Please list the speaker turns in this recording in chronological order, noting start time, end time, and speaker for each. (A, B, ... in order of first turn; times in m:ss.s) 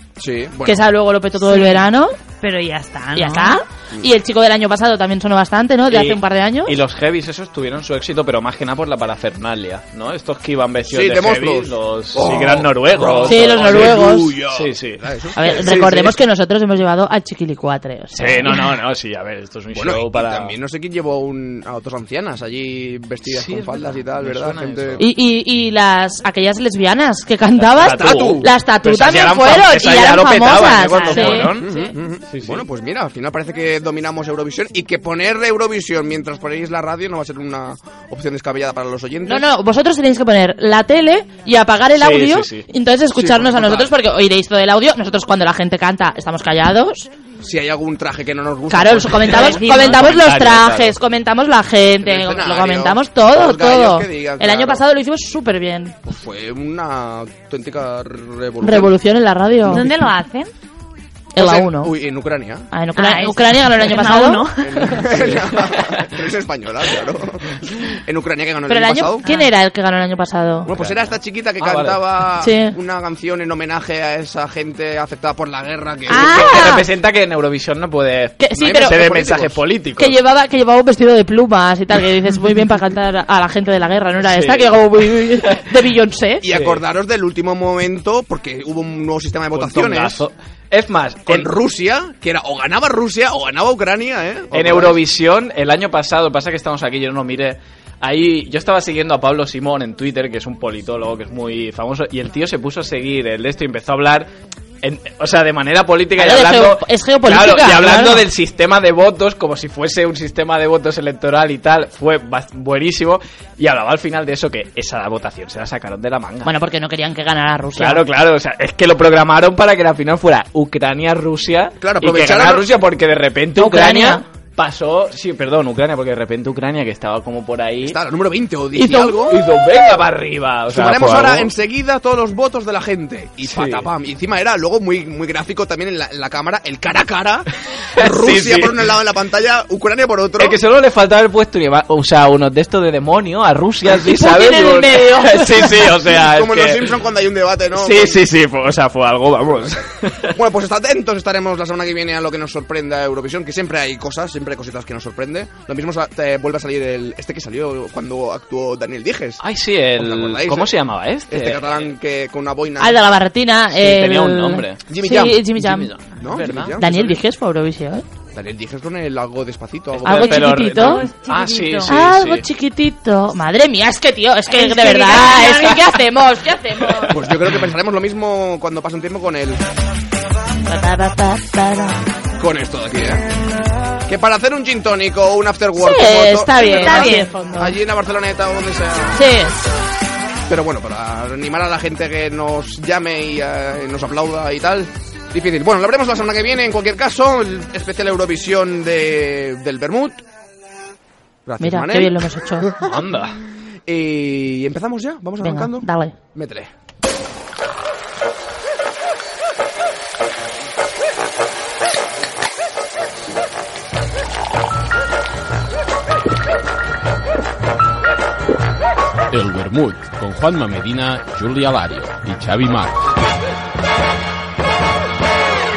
0:00.2-0:00.9 A
0:00.6-0:02.2 B
0:01.4-0:01.8 C
0:02.4-0:03.6 C
0:03.2-0:06.7 B
0:05.9-0:16.0 D
0:10.9-0:16.1 A
0:13.3-0:14.3 B
0:15.4-0:18.5 B
0:18.2-0:20.5 D
0:19.7-0:25.0 A
0:23.3-0:25.0 D
0:25.0-0:31.5 B
0:27.6-0:31.7 D
0:27.8-0:28.5 A
0:31.0-0:31.5 C
0:31.6-0:39.5 A
0:32.3-0:32.6 D
0:39.3-0:47.1 B
0:42.0-0:42.7 D
0:43.1-0:43.9 A
0:47.4-0:49.6 A
0:48.7-0:56.0 B
0:49.4-0:51.0 D
0:49.4-0:50.0 C
0:52.0-0:54.8 A
0:56.0-0:58.9 A
0:58.6-0:59.9 B
0:59.7-1:00.5 C
1:01.4-1:01.9 B
1:01.4-1:02.7 A
1:02.7-1:04.9 B
1:03.0-1:05.0 C
1:04.6-1:09.2 A
1:05.1-1:06.0 D
1:08.7-1:10.7 B
1:10.7-1:16.7 A
1:10.8-1:12.0 D
1:12.4-1:12.8 B
1:16.1-1:16.8 B
1:16.1-1:20.2 D
1:18.4-1:18.9 B
1:18.6-1:19.6 A
1:20.0-1:26.4 B
1:24.2-1:25.6 D
1:26.4-1:30.2 A
1:26.5-1:26.8 D
1:29.6-1:31.5 D
1:31.3-1:35.0 A
1:34.5-1:44.3 D
1:44.8-1:56.5 D
1:46.2-1:48.2 B
1:56.4-1:58.0 B
1:57.8-2:08.0 D
2:01.8-2:02.7 A
2:03.6-2:04.2 B
2:07.8-2:09.4 A
2:08.8-2:09.2 B
2:09.3-2:11.5 D
2:10.7-2:20.6 A
2:13.4-2:13.9 D
2:18.0-2:18.8 D
2:20.4-2:27.0 D
2:24.0-2:25.9 B
2:26.1-2:28.2 A
2:27.8-2:30.3 D
2:30.3-2:39.4 A
2:39.4-2:41.9 D
2:40.0-2:40.7 A
2:41.3-2:43.0 A
2:42.8-2:45.9 B
2:43.7-2:44.8 D
2:44.9-2:45.4 A
2:45.6-2:46.8 D
2:46.2-2:47.2 A
2:46.8-2:48.0 B
2:48.3-2:50.4 A
2:50.0-2:52.4 D
2:50.0-2:51.0 B
2:50.8-2:51.9 C
2:51.9-2:57.2 B
2:54.5-2:56.0 C
2:57.1-2:59.6 A
3:00.7-3:02.0 B
3:02.4-3:03.2 A
3:04.1-3:09.2 A
3:05.8-3:07.8 B
3:06.6-3:07.3 C
3:09.2-3:09.5 B
3:10.5-3:20.2 A
3:21.5-3:23.0 A
3:21.6-3:22.7 B
3:22.8-3:23.4 D
3:23.9-3:26.7 A
3:25.4-3:26.1 B
3:39.3-3:43.0 E